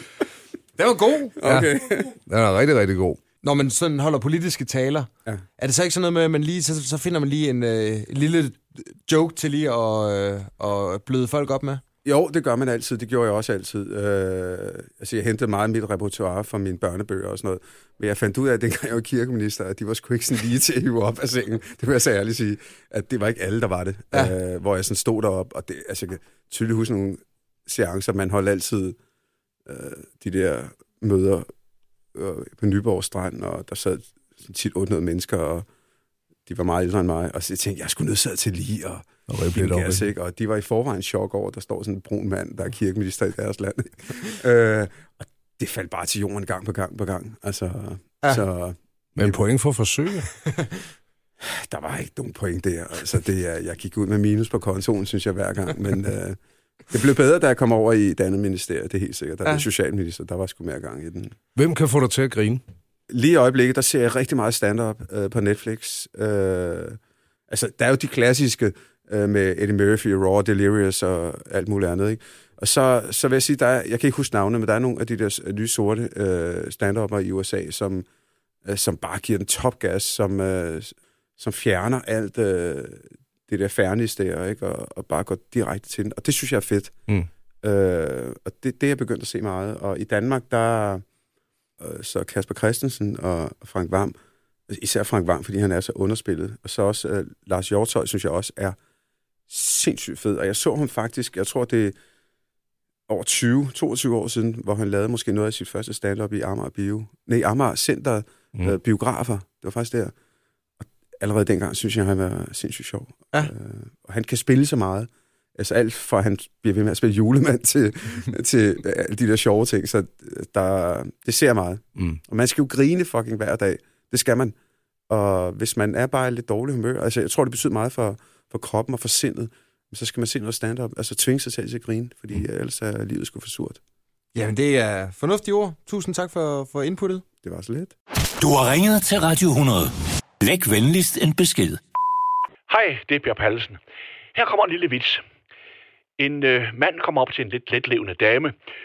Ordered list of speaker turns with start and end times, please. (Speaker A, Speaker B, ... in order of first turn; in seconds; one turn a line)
Speaker A: 0.8-1.5
Speaker B: 1.4-2.1
Speaker C: 2.2-3.2
Speaker A: 3.4-11.8
Speaker B: 12.0-29.0
Speaker B: 29.6-31.5
Speaker B: 32.1-35.7
Speaker B: 36.5-49.4
Speaker C: 39.3-40.0
Speaker C: 49.1-50.3
Speaker B: 51.4-56.4
Speaker B: 56.9-61.3
Speaker C: 61.5-62.6
Speaker B: 63.1-67.0
Speaker B: 67.5-78.0
Speaker B: 78.6-87.0
Speaker B: 87.6-91.0
Speaker B: 91.8-94.1
Speaker B: 94.7-98.8
Speaker B: 99.5-102.0
Speaker B: 103.1-110.1
Speaker B: 110.8-124.5
Speaker B: 125.1-133.8
Speaker A: 134.3-137.2
Speaker B: 137.4-137.9
Speaker D: 138.4-141.8
Speaker E: 142.7-143.8
Speaker E: 144.3-145.2
Speaker E: 146.2-148.5